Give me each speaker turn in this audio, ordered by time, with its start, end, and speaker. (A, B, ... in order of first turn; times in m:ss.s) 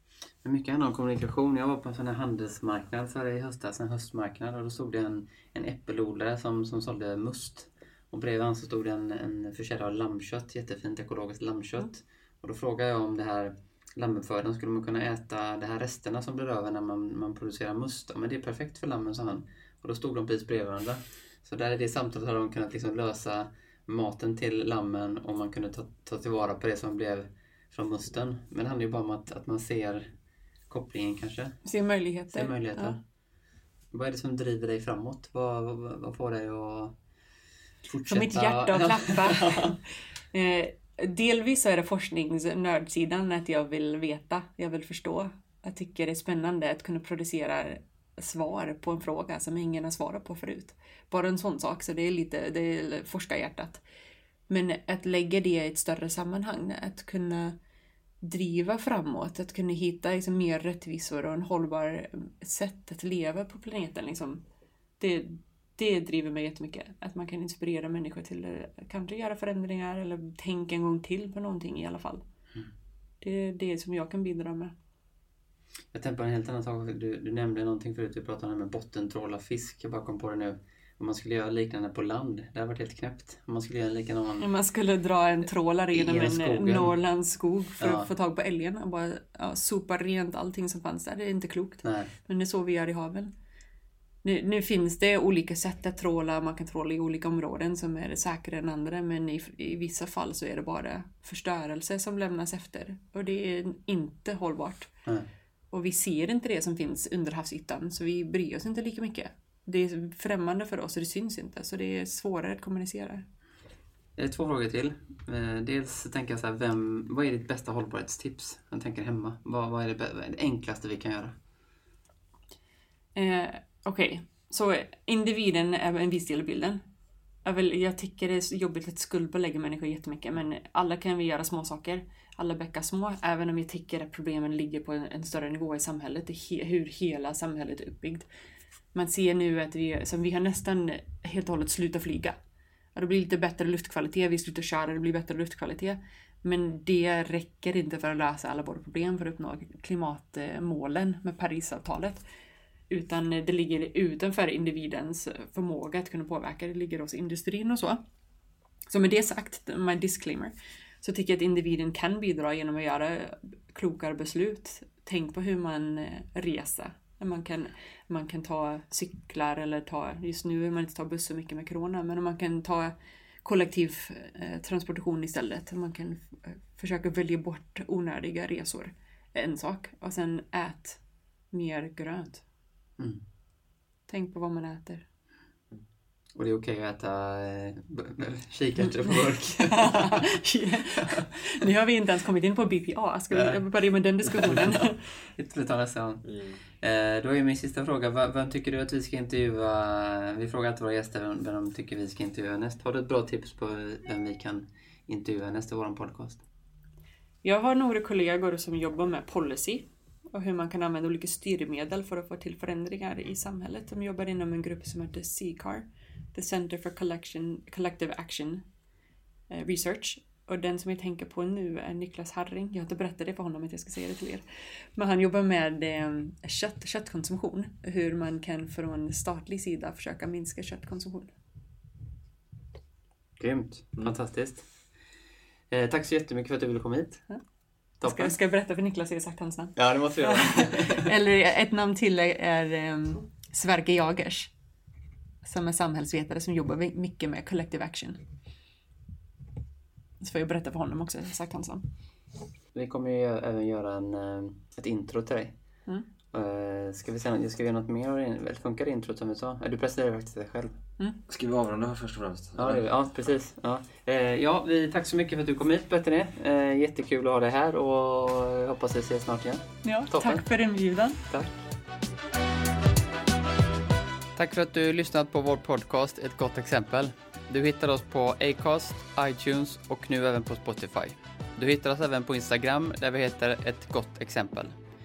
0:00.4-0:30.1 A
0:30.7-0:31.6 A
0:31.6-0:33.0 B
0:32.3-0:33.0 A
0:33.9-0:37.0 A
0:37.8-0:39.7 A
0:38.1-0:53.8 B
0:54.5-0:57.6 B
0:58.2-1:04.4 B
1:05.0-1:12.2 B
1:13.2-1:14.7 B
1:15.9-1:24.5 A
1:24.4-1:33.3 B
1:25.9-1:26.9 A
1:27.8-1:28.1 A
1:31.8-1:32.1 A
1:34.2-1:44.9 B
1:45.7-1:53.2 B
1:54.2-2:01.4 A
2:03.1-2:06.8 B
2:07.4-2:18.3 B
2:18.9-2:22.4 B
2:22.9-2:32.2 B
2:32.9-2:38.0 B
2:38.9-3:01.0 B
3:01.5-3:02.4 B
3:04.1-3:05.0 B
3:06.4-3:10.4 A
3:09.6-3:15.0 B
3:13.3-3:13.6 A
3:14.3-3:26.4 A
3:16.2-3:16.6 C
3:27.4-3:38.6 B
3:39.5-3:44.4 B
3:45.0-3:51.3 B
3:53.4-3:54.7 A
3:55.7-3:57.3 A
3:58.0-3:58.4 A
3:58.0-4:04.5 B
3:59.8-4:01.1 A
4:05.4-4:08.2 B
4:10.2-4:11.9 B
4:12.7-4:15.5 A
4:16.3-4:20.7 A
4:21.3-4:22.8 C
4:22.6-4:30.4 A
4:29.8-4:31.2 B
4:31.2-4:31.5 A
4:34.4-4:44.7 A